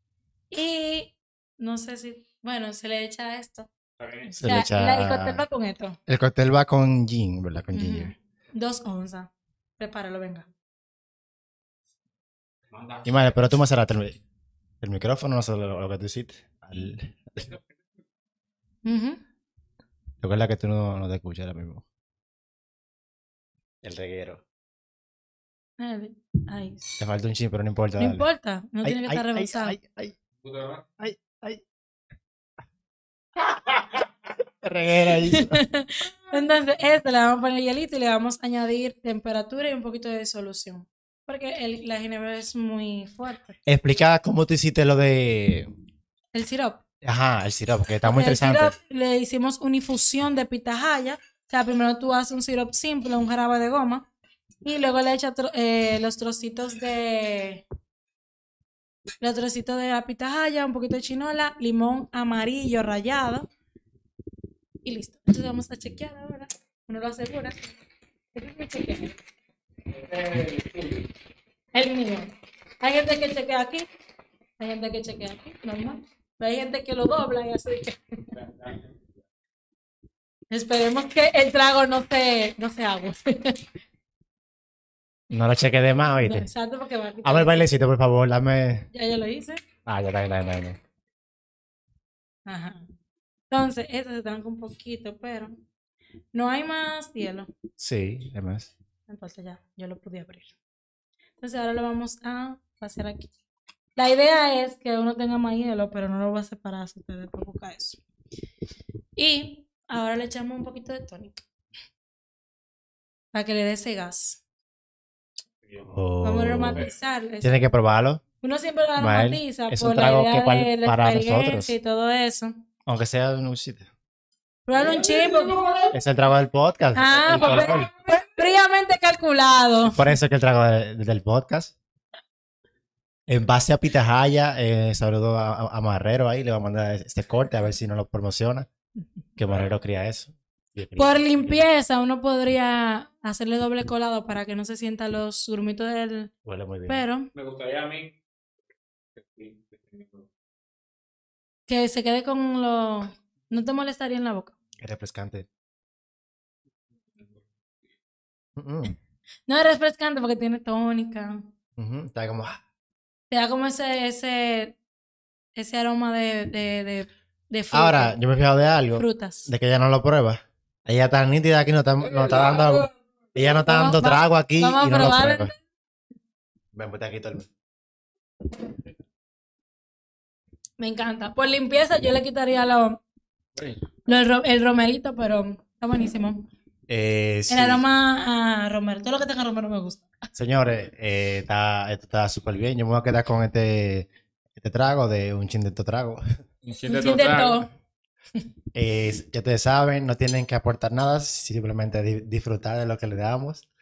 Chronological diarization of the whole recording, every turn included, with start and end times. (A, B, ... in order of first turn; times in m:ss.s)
0:00.5-0:03.7 A
0:04.0-0:04.5 B
0:04.3-0:06.0 A
0:04.4-0:05.4 C
0:06.1-0:08.1 C
0:07.7-0:10.5 A
0:12.7-0:13.4 B
0:13.0-0:14.2 C
0:14.8-0:17.5 C
0:18.8-0:19.2 A
0:20.2-0:21.8 C
0:23.8-0:24.4 C
0:25.8-0:26.9 A
0:27.0-0:28.3 C
0:28.0-0:29.8 A
0:28.8-0:30.1 C
0:30.4-0:30.8 B
0:31.0-0:31.6 C
0:34.6-0:35.6 C
0:35.3-0:43.6 A
0:43.7-0:45.7 C
0:46.3-0:46.8 A
0:47.0-0:48.7 C
0:48.0-0:54.1 A
0:54.6-0:57.6 A
0:59.2-1:03.5 A
1:04.8-1:07.8 A
1:08.3-1:09.2 A
1:09.9-1:11.1 B
1:11.7-1:13.9 A
1:14.6-1:18.0 A
1:18.3-1:18.9 B
1:20.5-1:23.6 A
1:25.3-1:26.5 C
1:26.2-1:27.7 A
1:27.2-1:28.9 C
1:28.9-1:29.6 A
1:29.9-1:30.8 C
1:32.5-1:32.9 A
1:33.5-1:35.6 A
1:36.3-1:37.5 A
1:37.8-1:38.7 C
1:39.1-1:40.5 A
1:41.4-1:43.3 A
1:44.0-1:48.0 A
1:49.2-1:51.4 A
1:53.3-1:54.4 A
1:55.6-1:55.9 B
1:55.9-1:56.9 C
1:56.2-1:57.6 A
1:57.4-1:58.2 C
1:58.4-2:02.6 A
1:59.0-2:01.8 C
2:02.9-2:03.9 C
2:04.7-2:05.7 A
2:04.9-2:05.8 B
2:05.9-2:07.9 C
2:07.0-2:10.0 A
2:09.9-2:11.8 C
2:13.3-2:18.7 C
2:19.4-2:21.6 C
2:21.0-2:26.3 A
2:26.4-2:27.0 C
2:26.9-2:27.3 A
2:27.3-2:28.2 B
2:29.2-2:30.2 B
2:31.7-2:34.6 A
2:34.8-2:35.5 C
2:38.6-2:39.0 C
2:39.5-2:41.5 A
2:41.8-2:42.6 C
2:43.3-2:44.8 A
2:45.6-2:48.2 A
2:47.7-2:55.5 C
2:48.9-2:49.5 A
2:52.2-2:52.6 B
2:53.7-2:55.6 A
2:56.7-2:57.5 C
3:00.8-3:03.0 A
3:04.1-3:06.5 A
3:06.9-3:07.8 C
3:07.5-3:10.1 A
3:10.4-3:16.2 C
3:16.6-3:17.6 B
3:16.9-3:17.7 A
3:18.8-3:23.7 C